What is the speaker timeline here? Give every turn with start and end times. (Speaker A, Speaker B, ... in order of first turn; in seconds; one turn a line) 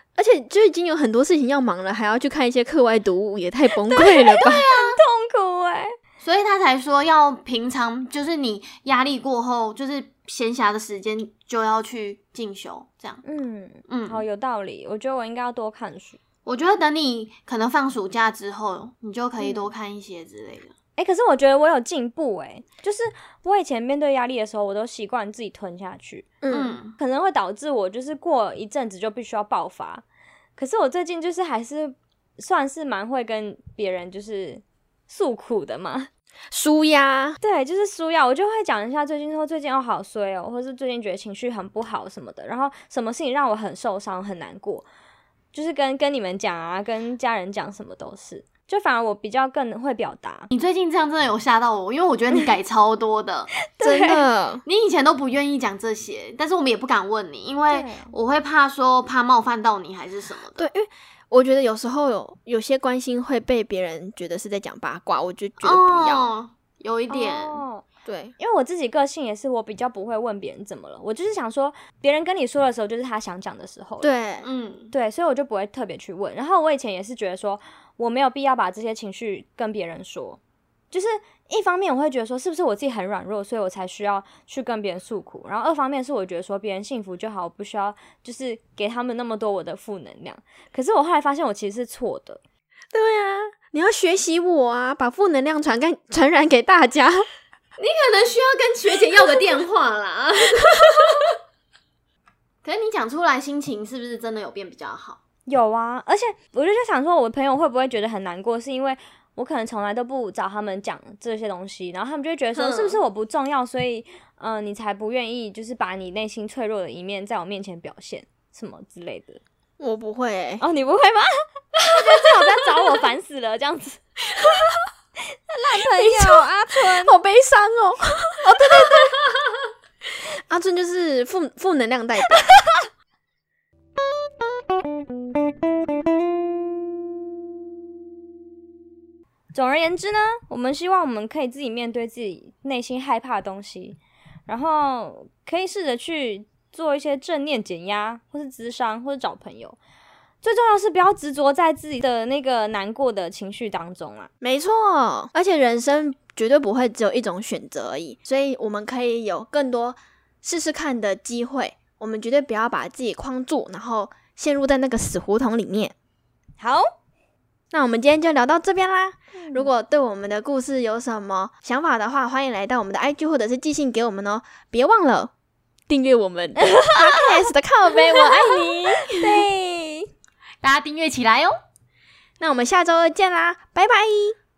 Speaker A: 0.2-4.7
Speaker B: 3.8-6.0
Speaker C: 4.4-5.0
Speaker C: 6.2-13.2
Speaker B: 13.2-16.2
Speaker C: 13.9-14.2
Speaker C: 16.5-20.7
Speaker B: 19.4-19.7
Speaker B: 21.0-26.3
Speaker A: 26.4-26.8
Speaker C: 26.5-27.0
Speaker B: 27.0-30.0
Speaker B: 30.6-36.1
Speaker A: 36.5-37.4
Speaker B: 37.4-44.9
Speaker B: 45.5-50.5
Speaker C: 50.5-53.5
Speaker B: 53.6-54.2
Speaker A: 53.8-54.6
Speaker C: 54.7-60.6
Speaker B: 57.7-58.1
Speaker A: 60.6-66.3
Speaker C: 65.6-67.6
Speaker B: 67.1-67.8
Speaker A: 68.1-68.3
Speaker B: 68.4-74.1
Speaker A: 74.0-74.5
Speaker C: 74.4-74.9
Speaker B: 74.9-80.4
Speaker B: 80.9-92.4
Speaker A: 92.9-97.2
Speaker C: 97.8-101.3
Speaker C: 102.6-105.2
Speaker B: 105.5-119.4
Speaker C: 112.5-113.0
Speaker A: 119.8-120.6
Speaker B: 120.6-124.0
Speaker B: 125.5-127.2
Speaker A: 125.8-129.2
Speaker A: 130.4-132.5
Speaker B: 139.5-149.8
Speaker B: 150.4-154.3
Speaker A: 154.4-165.9
Speaker B: 166.6-166.9
Speaker A: 167.7-175.3
Speaker B: 169.4-169.7
Speaker A: 175.9-179.4
Speaker B: 178.2-180.1
Speaker C: 180.6-181.6
Speaker A: 182.4-184.4